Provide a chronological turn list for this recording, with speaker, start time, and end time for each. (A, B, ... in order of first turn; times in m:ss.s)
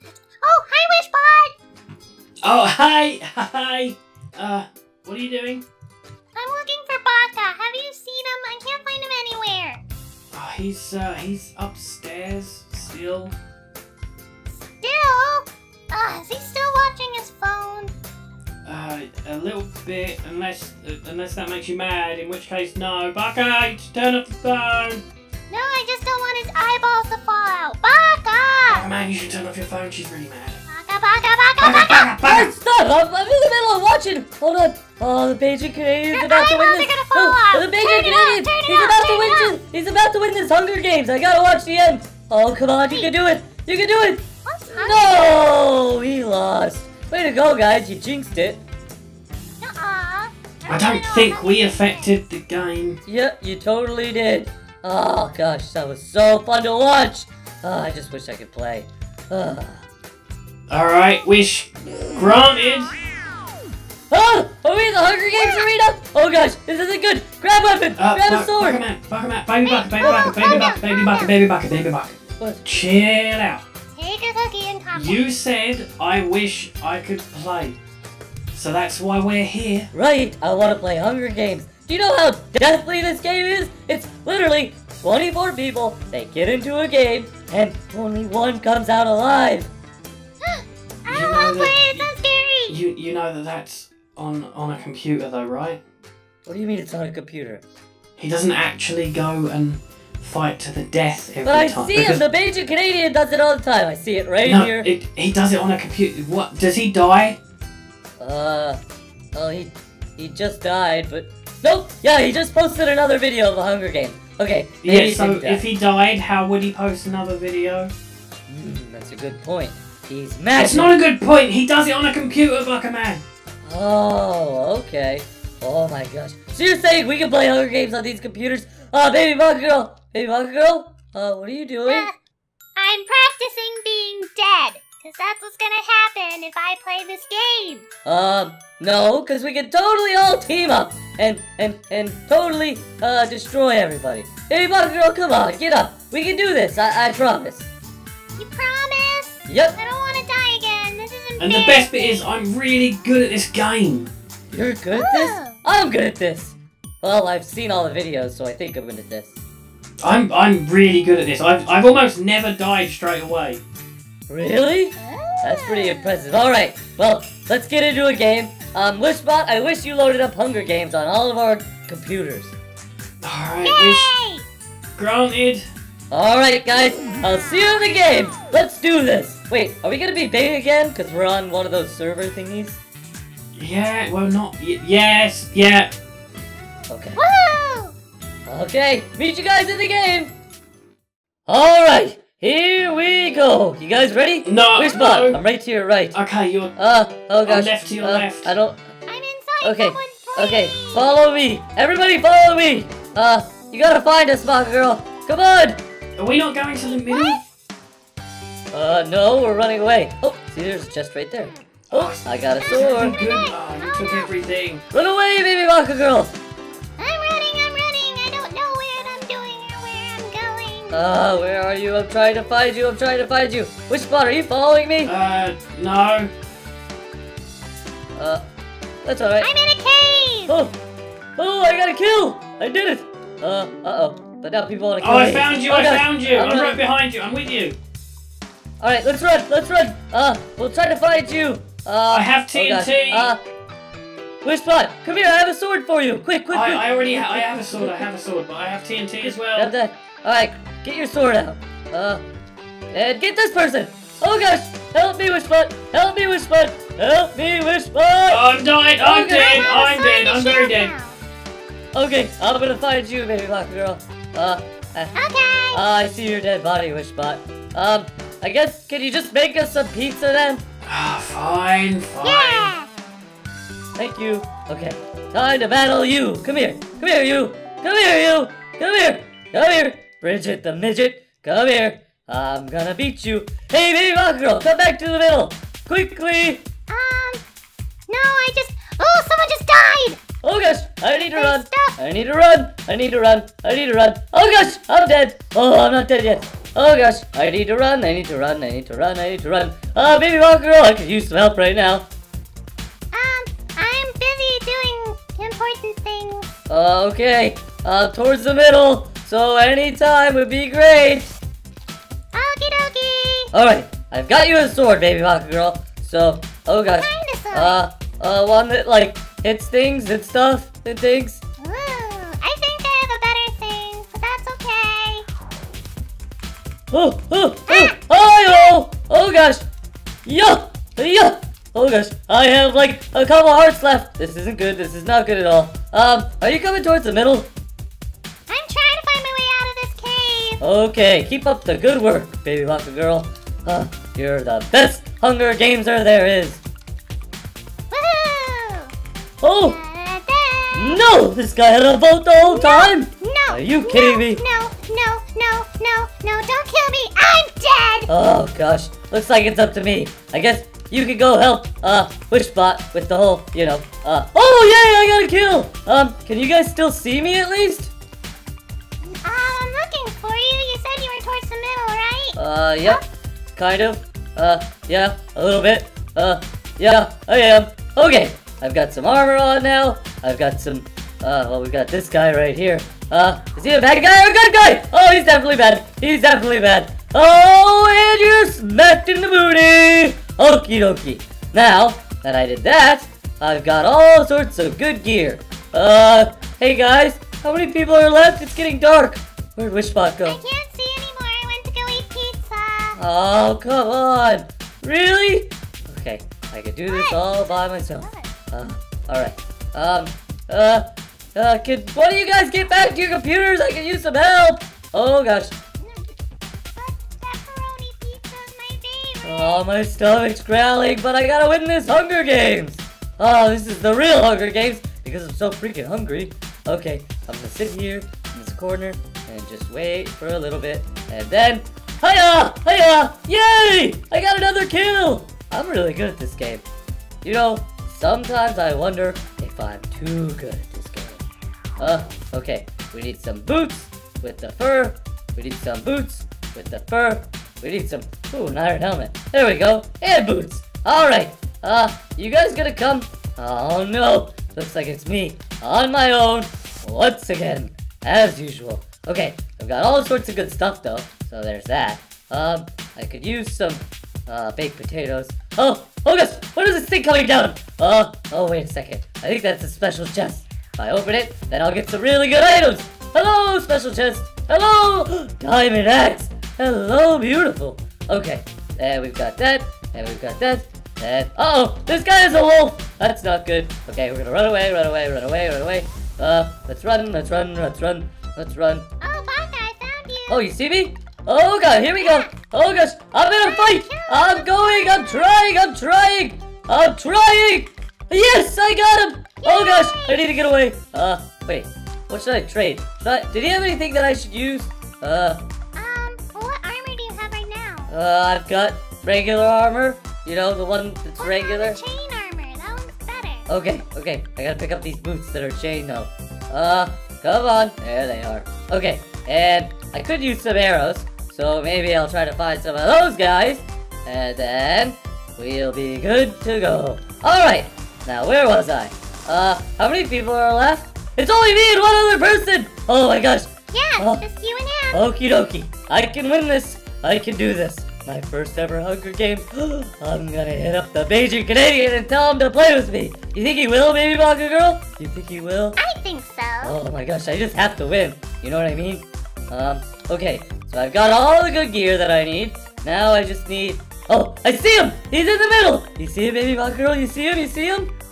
0:00.4-0:01.6 A
0:02.4-0:05.6 B
0:06.4-0:09.8 A
0:10.3-0:13.4 B
0:14.8-0:17.9 A
0:18.6-0:25.0 B
0:25.5-0:28.9 A
0:28.7-0:30.6 B
0:30.7-0:32.1 A
0:31.6-0:32.6 B
0:32.2-0:44.2 C
0:36.1-0:39.6 A
0:44.4-0:45.3 A
0:44.8-0:48.6 C
0:49.6-0:52.0 A
0:50.7-0:53.0 B
0:53.1-0:59.8 C
1:00.7-1:03.0 B
1:04.1-1:08.8 C
1:05.4-1:05.7 A
1:08.0-1:13.6 B
1:09.6-1:11.3 A
1:10.0-1:10.7 C
1:12.4-1:12.8 C
1:13.9-1:15.3 A
1:14.9-1:17.8 B
1:18.5-1:19.9 B
1:19.9-1:29.7 C
1:30.4-1:32.8 A
1:31.1-1:32.1 B
1:32.7-1:35.8 B
1:36.5-1:37.6 C
1:38.2-1:42.3 B
1:41.4-1:44.9 C
1:44.4-1:47.4 B
1:48.2-1:48.8 C
1:49.3-1:55.6 C
1:54.8-1:57.9 B
1:58.5-2:01.0 C
2:00.6-2:03.2 B
2:03.6-2:12.1 C
2:11.9-2:12.1 A
2:12.8-2:17.9 A
2:18.0-2:27.7 C
2:28.4-2:32.3 A
2:29.5-2:29.8 C
2:31.4-2:34.1 B
2:34.5-2:39.4 C
2:34.9-2:35.6 A
2:40.0-2:43.6 B
2:44.3-2:52.6 C
2:45.0-2:46.1 A
2:53.2-2:54.2 B
2:53.6-2:54.5 A
2:55.0-2:55.6 B
2:56.1-3:02.8 C
3:03.6-3:05.9 B
3:06.9-3:07.2 C
3:07.2-3:08.0 A
3:08.5-3:10.3 C
3:11.5-3:16.2 C
3:14.4-3:15.4 B
3:16.1-3:16.8 B
3:16.8-3:18.8 C
3:17.4-3:18.5 B
3:19.1-3:21.1 A
3:19.6-3:25.8 C
3:26.2-3:27.4 B
3:27.1-3:27.4 A
3:28.7-3:33.2 C
3:31.9-3:34.8 B
3:32.7-3:34.3 A
3:34.9-3:36.4 C
3:37.0-3:41.0 A
3:40.9-3:45.1 C
3:45.0-3:46.3 B
3:48.2-3:48.4 C
3:49.0-3:49.5 C
3:49.4-3:50.6 A
3:50.5-3:50.8 C
3:51.4-3:56.8 C
3:55.0-3:57.8 B
3:58.8-4:03.4 C
4:02.1-4:03.3 B
4:04.4-4:08.0 C
4:06.5-4:09.7 B
4:09.2-4:12.2 C
4:12.9-4:18.5 C
4:18.3-4:20.9 B
4:19.0-4:19.6 C
4:19.1-4:21.2 A
4:21.9-4:25.1 C
4:25.2-4:25.8 A
4:25.7-4:30.6 C
4:30.9-4:32.7 B
4:32.2-4:32.9 A
4:34.0-4:46.6 C
4:46.9-4:47.4 A
4:48.1-4:50.2 A
4:50.4-5:02.1 C
4:51.2-4:52.0 A
5:03.1-5:06.5 A
5:06.7-5:11.3 C
5:12.3-5:13.5 A
5:13.5-5:21.4 C
5:17.0-5:17.8 A
5:21.6-5:25.2 A
5:26.9-5:29.6 C
5:27.7-5:28.7 A
5:30.3-5:37.5 C
5:38.5-5:40.6 A
5:40.6-5:46.6 C
5:47.9-5:48.9 A
5:49.4-5:49.8 C
5:49.6-5:51.0 A
5:50.7-5:54.4 C
5:52.5-5:58.1 A
5:58.1-6:07.9 C
6:09.2-6:13.0 A
6:12.4-6:13.0 C
6:13.6-6:40.4 C
6:40.3-6:43.0 A
6:43.0-6:55.6 C
6:46.9-6:48.3 A
6:55.8-6:56.1 A
6:56.7-6:59.6 A
6:59.2-7:16.6 C
7:17.2-7:21.2 C
7:21.8-8:08.9 C
8:09.0-8:10.4 A
8:10.3-8:25.4 C
8:12.0-8:12.3 A
8:13.4-8:15.4 A
8:19.4-8:20.3 A
8:25.8-8:27.9 A
8:27.9-8:31.8 C
8:31.2-8:33.5 A
8:33.5-8:54.2 C
8:53.7-8:55.0 A
8:54.9-9:05.8 C
9:05.8-9:06.8 A
9:06.6-9:17.9 C